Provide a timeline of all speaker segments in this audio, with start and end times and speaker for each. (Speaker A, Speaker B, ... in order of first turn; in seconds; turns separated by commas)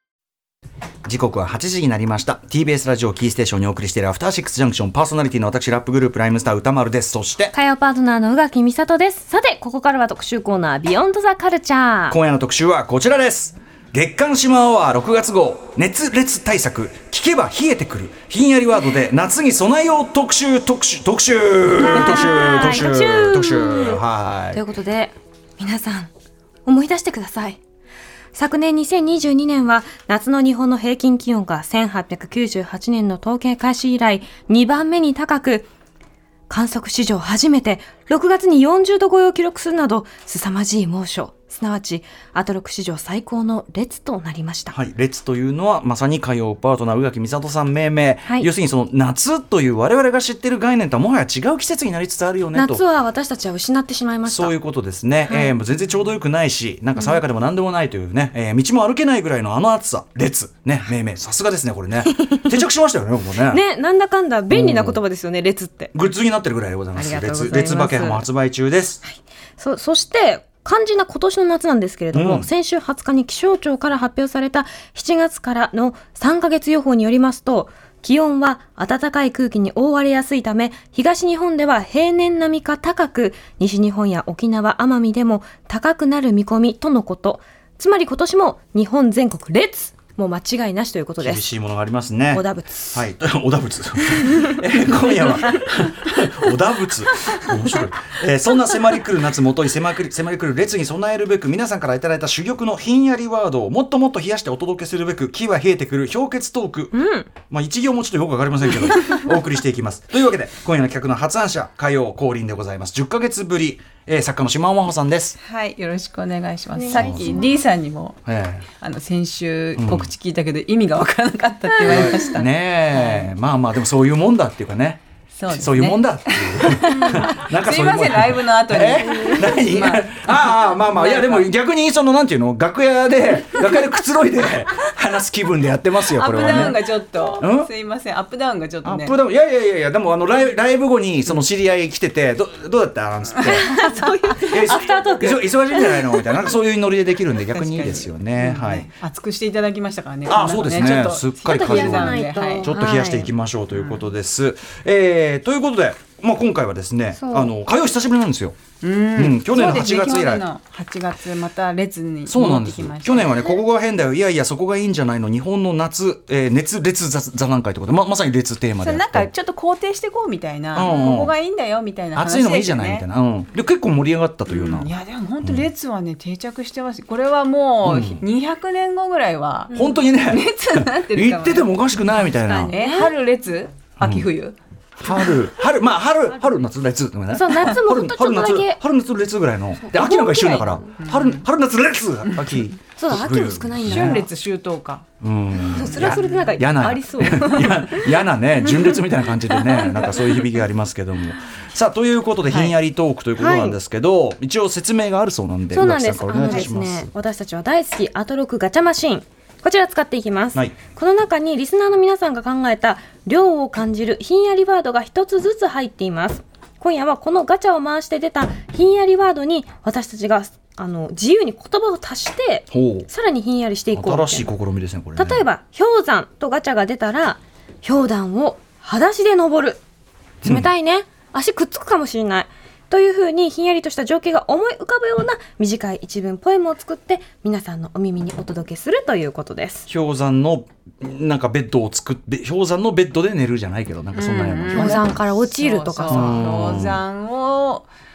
Speaker A: 1.0-7.5, Speaker B: 7.5-12.2, Speaker A: 12.1-24.6, Speaker B: 21.8-24.0, Speaker B: 24.5-26.1, Speaker B: 26.6-27.6, Speaker B: 28.3-35.7, Speaker B: 36.5-44.8, Speaker A: 44.7-52.8, Speaker B: 52.5-54.5, Speaker A: 54.2-63.6, Speaker B: 55.3-55.5, Speaker B: 62.1-62.4, Speaker B: 63.5-65.9, Speaker A: 64.5-65.0, Speaker A: 65.9-69.0, Speaker B: 66.9-68.2, Speaker B: 69.6-91.5, Speaker A: 72.1-72.5, Speaker A: 91.2-115.4, Speaker B: 92.3-93.0, Speaker B: 106.9-107.3, Speaker C: 115.4-118.2, Speaker B: 116.8-117.5, Speaker A: 116.9-117.4, Speaker A: 118.2-118.7, Speaker C: 118.8-123.3, Speaker A: 119.8-120.1, Speaker A: 121.8-136.9, Speaker C: 125.3-131.5, Speaker C: 136.1-139.1, Speaker A: 137.4-137.7, Speaker A: 138.8-148.9, Speaker B: 143.4-146.5, Speaker C: 147.5-152.7, Speaker A: 150.2-158.6, Speaker B: 151.4-153.3, Speaker C: 153.7-154.0, Speaker B: 157.2-157.5, Speaker C: 158.8-163.4, Speaker A: 159.1-160.4, Speaker A: 162.2-169.3, Speaker C: 168.8-173.0, Speaker A: 170.7-171.3, Speaker A: 172.1-174.9, Speaker C: 174.5-181.7, Speaker A: 177.8-178.2, Speaker A: 179.7-182.7, Speaker B: 182.3-183.1, Speaker C: 182.7-184.6, Speaker A: 184.0-184.3, Speaker A: 185.0-194.3, Speaker B: 187.3-188.8, Speaker B: 189.9-190.9, Speaker C: 191.0-191.4, Speaker B: 193.0-194.3, Speaker C: 193.8-195.0, Speaker A: 195.2-207.1, Speaker B: 195.6-198.1, Speaker C: 195.8-196.6, Speaker C: 199.5-200.3, Speaker B: 203.4-203.8, Speaker B: 205.7-224.5, Speaker A: 222.7-223.1, Speaker A: 223.9-225.4, Speaker B: 225.2-229.8, Speaker B: 230.4-239.9, Speaker A: 230.4-230.7, Speaker A: 239.9-245.1, Speaker C: 244.1-247.9, Speaker B: 244.7-246.5, Speaker A: 246.1-247.0